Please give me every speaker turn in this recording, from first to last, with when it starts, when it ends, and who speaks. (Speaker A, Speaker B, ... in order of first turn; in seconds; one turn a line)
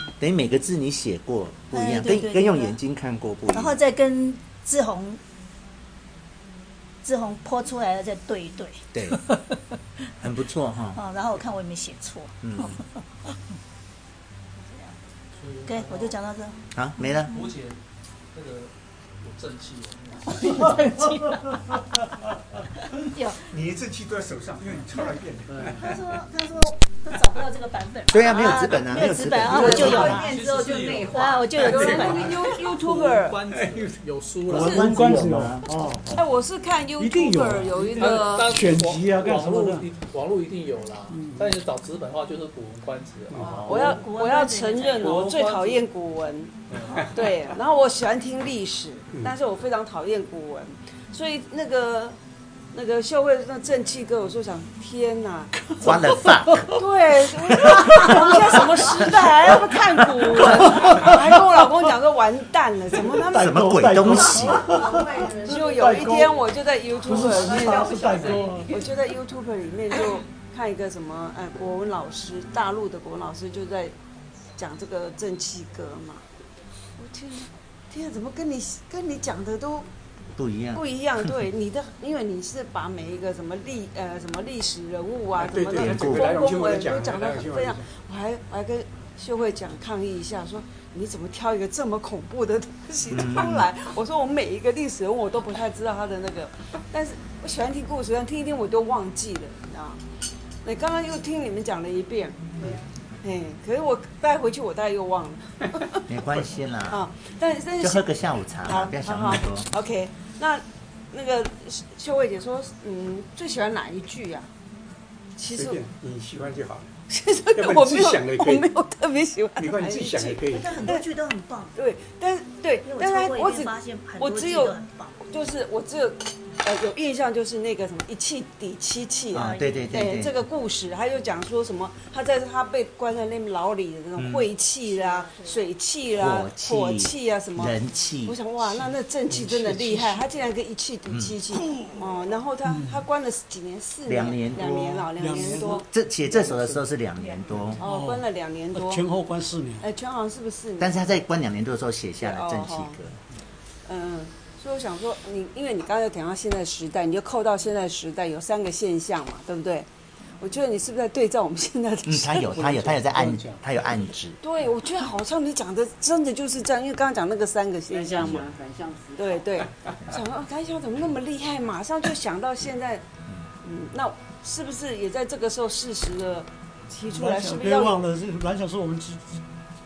Speaker A: 0.2-3.8
Speaker B: 1.7-2.8
Speaker B: 3.5-5.2
Speaker B: 7.0-9.1
Speaker A: 8.9-9.2
Speaker A: 10.2-11.0
Speaker B: 10.9-12.9
Speaker A: 12.4-12.8
Speaker B: 14.6-15.0
Speaker C: 15.4-16.1
Speaker B: 15.7-16.6
Speaker A: 16.8-17.3
Speaker C: 17.3-17.8
Speaker C: 18.3-20.7
Speaker B: 20.3-22.0
Speaker B: 23.0-23.5
Speaker D: 23.5-26.0
Speaker C: 25.5-25.9
Speaker B: 25.7-32.3
Speaker A: 28.1-30.2
Speaker E: 29.5-32.4
Speaker C: 30.1-31.1
Speaker F: 31.6-33.4
Speaker D: 31.7-32.3
Speaker C: 32.2-35.0
Speaker D: 33.5-34.0
Speaker A: 34.5-35.7
Speaker G: 34.5-36.3
Speaker F: 36.1-38.6
Speaker G: 37.0-39.9
Speaker C: 38.0-43.9
Speaker G: 41.1-41.6
Speaker D: 43.3-43.6
Speaker F: 43.4-52.2
Speaker B: 43.5-45.2
Speaker C: 45.0-45.8
Speaker C: 46.7-47.1
Speaker F: 52.7-55.6
Speaker G: 55.8-56.7
Speaker A: 55.8-56.8
Speaker F: 56.8-64.2
Speaker G: 57.6-58.5
Speaker G: 59.7-61.2
Speaker G: 63.1-66.4
Speaker A: 63.4-64.8
Speaker E: 64.5-66.0
Speaker F: 65.5-73.9
Speaker G: 67.0-68.7
Speaker E: 67.1-68.9
Speaker F: 74.6-76.2
Speaker F: 77.0-79.9
Speaker A: 80.4-80.8
Speaker F: 80.7-100.0
Speaker D: 85.3-87.9
Speaker A: 85.8-86.3
Speaker A: 93.1-93.7
Speaker F: 100.6-106.0
Speaker A: 106.1-107.0
Speaker F: 106.9-114.5
Speaker A: 107.8-109.7
Speaker F: 115.4-115.8
Speaker D: 115.5-116.9
Speaker F: 117.1-121.0
Speaker D: 117.5-118.7
Speaker D: 119.6-120.9
Speaker B: 120.5-121.8
Speaker F: 121.8-124.8
Speaker B: 122.8-125.2
Speaker F: 125.3-145.9
Speaker B: 129.3-130.0
Speaker A: 129.3-130.3
Speaker A: 134.2-134.5
Speaker B: 134.9-135.6
Speaker A: 136.2-138.4
Speaker G: 139.3-140.2
Speaker A: 141.1-141.4
Speaker G: 142.7-143.0
Speaker A: 144.1-147.8
Speaker G: 145.2-145.9
Speaker G: 147.8-149.9
Speaker F: 147.8-149.0
Speaker F: 149.8-151.1
Speaker A: 150.8-153.2
Speaker F: 152.2-153.0
Speaker F: 153.9-162.5
Speaker A: 162.1-164.4
Speaker C: 162.5-163.6
Speaker F: 164.4-168.4
Speaker E: 167.9-169.7
Speaker F: 169.2-173.1
Speaker F: 173.6-178.0
Speaker G: 177.1-179.4